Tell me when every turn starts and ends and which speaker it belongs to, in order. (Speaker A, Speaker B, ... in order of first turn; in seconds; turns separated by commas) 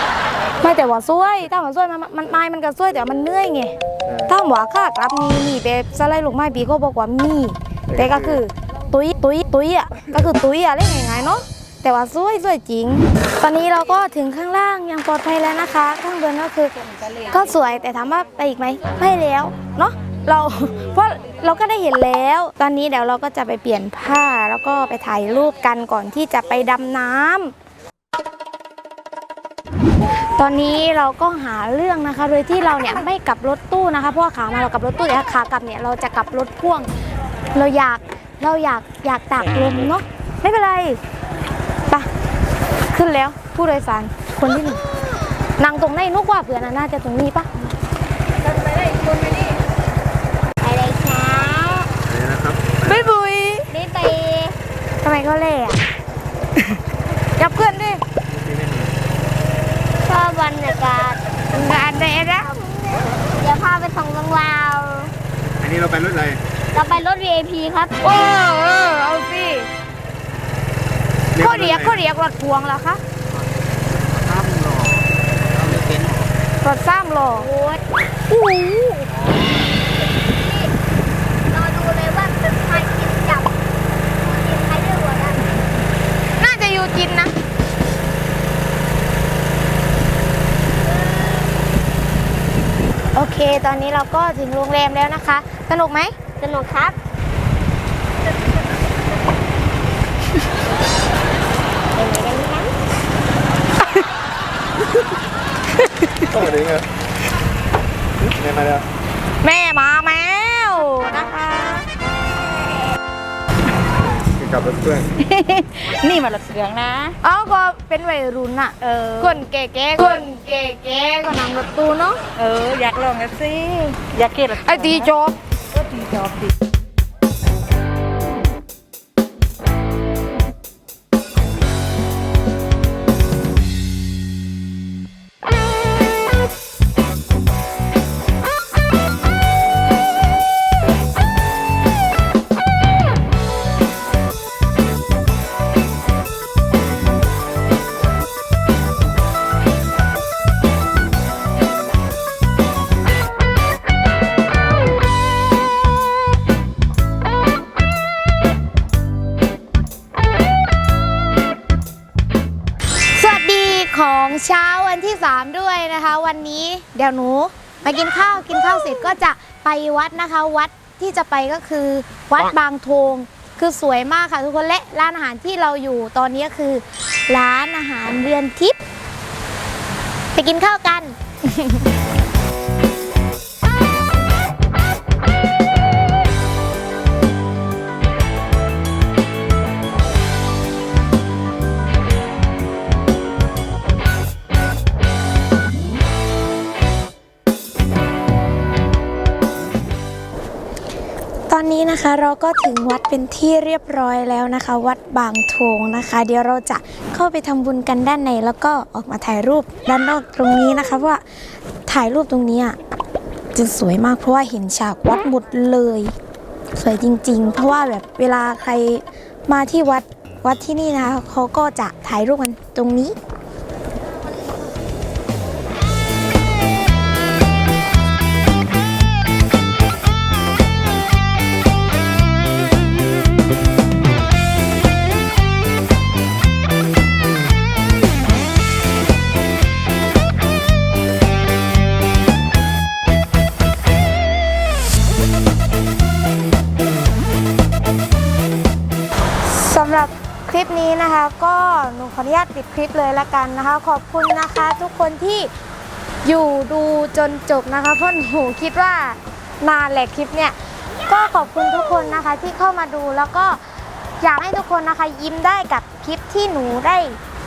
Speaker A: 0.6-27.5, Speaker A: 30.3-36.9, Speaker A: 37.5-41.0, Speaker A: 42.9-44.8, Speaker A: 45.6-47.5, Speaker B: 49.3-49.5, Speaker B: 50.6-51.9, Speaker C: 52.1-52.8, Speaker A: 52.8-53.7, Speaker B: 53.7-54.6, Speaker A: 55.0-55.8, Speaker A: 57.4-58.0, Speaker C: 58.5-58.9, Speaker B: 60.0-61.2, Speaker A: 61.5-63.2, Speaker B: 63.3-65.1, Speaker C: 65.6-66.4, Speaker B: 66.7-68.0, Speaker A: 68.0-69.7, Speaker A: 71.3-73.0, Speaker D: 74.5-75.0, Speaker A: 76.6-77.5, Speaker B: 77.4-77.8, Speaker A: 78.3-79.1, Speaker B: 80.2-80.7, Speaker B: 81.5-83.6, Speaker B: 84.1-85.5, Speaker A: 86.3-87.3, Speaker B: 91.2-91.5, Speaker A: 93.1-96.2, Speaker B: 96.4-97.0, Speaker B: 102.0-102.8, Speaker C: 106.3-106.9, Speaker C: 108.2-108.9, Speaker A: 109.4-111.9, Speaker C: 114.3-115.1, Speaker D: 115.2-117.2, Speaker A: 117.2-122.2, Speaker D: 122.4-125.1, Speaker A: 124.5-125.4, Speaker D: 125.8-126.5, Speaker A: 163.1-178.8, Speaker A: 180.3-181.9, Speaker A: 201.5-211.2, Speaker A: 211.9-212.8, Speaker A: 213.5-216.2, Speaker A: 216.7-223.2, Speaker A: 249.4-255.5, Speaker A: 256.2-260.6, Speaker A: 261.1-263.6, Speaker A: 264.2-267.2